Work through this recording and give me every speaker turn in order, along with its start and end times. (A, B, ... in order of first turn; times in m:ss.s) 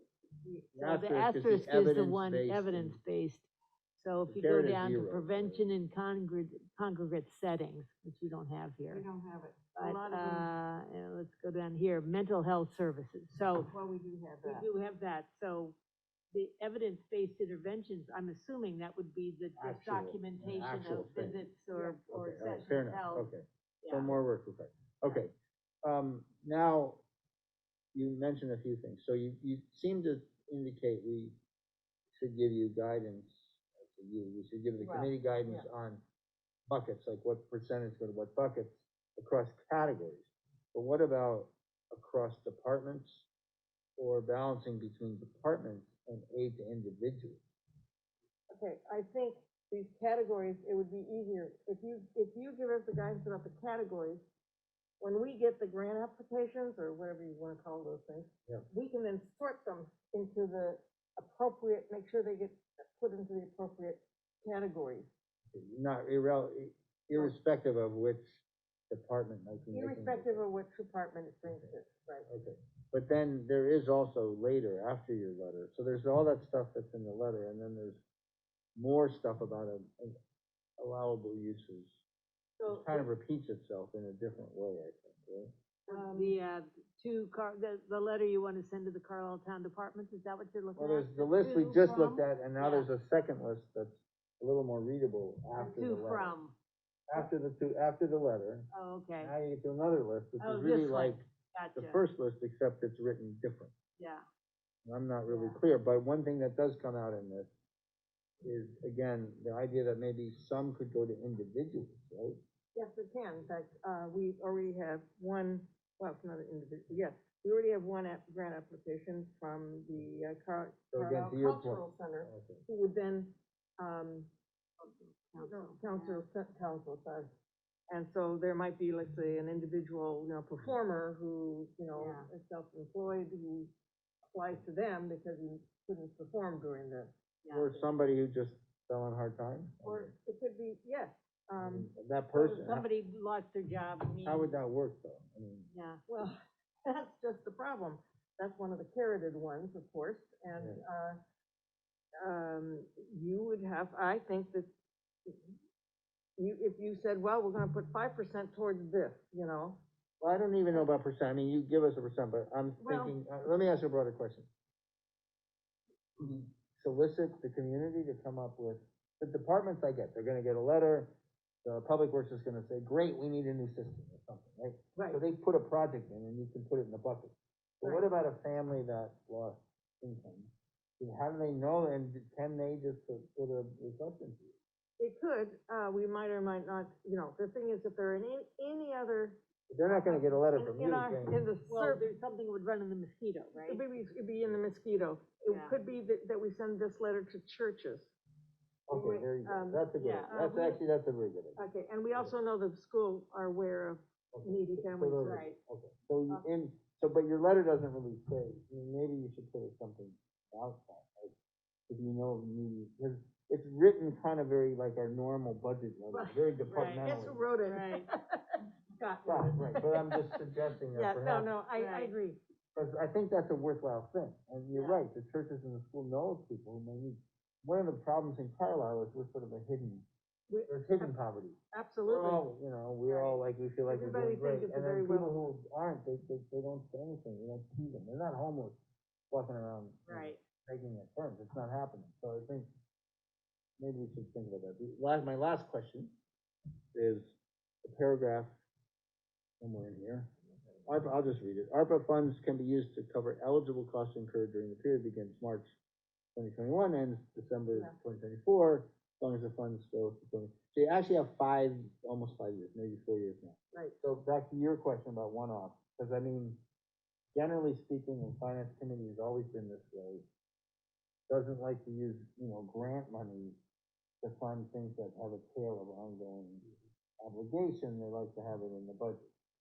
0:00.4-0:00.7 A
0:00.7-0:03.0 B
0:00.8-0:03.5 C
0:04.0-0:09.0 C
0:04.3-0:05.7 B
0:08.9-0:10.5 A
0:09.8-0:13.7 C
0:13.7-0:14.7 A
0:14.4-0:15.8 C
0:16.3-0:23.3 C
0:19.6-0:21.4 B
0:22.1-0:25.3 B
0:23.8-0:24.2 C
0:25.8-0:27.0 B
0:27.9-0:31.4 B
0:32.1-0:36.0 B
0:34.8-0:35.7 A
0:36.7-0:43.3 B
0:44.0-0:47.4 B
0:48.5-0:54.2 A
0:55.0-1:05.1 A
1:05.5-1:10.4 B
1:09.7-1:12.3 A
1:11.4-1:11.7 B
1:12.3-1:18.0 B
1:18.8-1:20.2 B
1:20.8-1:22.0 B
1:22.6-1:23.1 A
1:22.7-1:25.5 B
1:25.9-1:26.4 A
1:25.9-1:32.9 C
1:30.8-1:36.3 B
1:35.6-1:36.6 C
1:37.1-1:41.2 B
1:38.7-1:39.3 C
1:40.4-1:42.0 C
1:41.8-1:43.7 B
1:44.0-1:44.2 C
1:44.8-1:47.5 B
1:45.3-1:45.6 A
1:48.4-1:52.4 B
1:52.8-2:04.3 A
2:00.9-2:02.6 B
2:04.8-2:06.2 C
2:05.4-2:07.3 A
2:07.9-2:13.7 A
2:12.0-2:12.3 C
2:14.3-2:17.1 A
2:17.4-2:17.8 C
2:17.5-2:20.1 B
2:19.8-2:22.6 A
2:21.6-2:22.9 B
2:22.5-2:24.6 C
2:24.2-2:25.7 B
2:25.7-2:26.0 C
2:26.1-2:31.2 A
2:32.2-2:34.7 A
2:36.4-2:39.8 A
2:40.2-2:44.5 B
2:42.8-2:43.2 A
2:46.2-2:51.1 B
2:51.6-3:04.6 B
2:57.8-2:58.1 A
3:05.0-3:12.1 A
3:09.7-3:11.4 B
3:11.7-3:13.8 C
3:13.6-3:18.1 A
3:15.5-3:15.8 C
3:18.9-3:21.6 B
3:18.9-3:20.8 A
3:20.0-3:20.3 C
3:21.6-3:25.5 A
3:24.3-3:31.4 B
3:25.2-3:25.6 C
3:31.9-3:37.5 B
3:36.1-3:38.1 C
3:37.0-3:40.4 A
3:39.3-3:41.5 B
3:40.9-3:42.4 A
3:41.7-3:42.1 C
3:42.8-3:50.1 B
3:44.7-3:45.0 A
3:50.5-3:51.2 A
3:50.7-3:58.8 B
3:51.7-3:52.5 A
3:53.1-3:53.4 A
3:53.9-3:55.4 A
3:59.3-4:02.7 B
4:00.1-4:00.4 C
4:03.8-4:06.1 B
4:07.0-4:08.6 B
4:09.6-4:10.3 B
4:10.9-4:15.7 B
4:16.4-4:26.6 B
4:17.7-4:18.0 A
4:27.3-4:30.3 B
4:31.3-4:33.6 B
4:34.2-4:36.7 B
4:37.2-4:39.2 B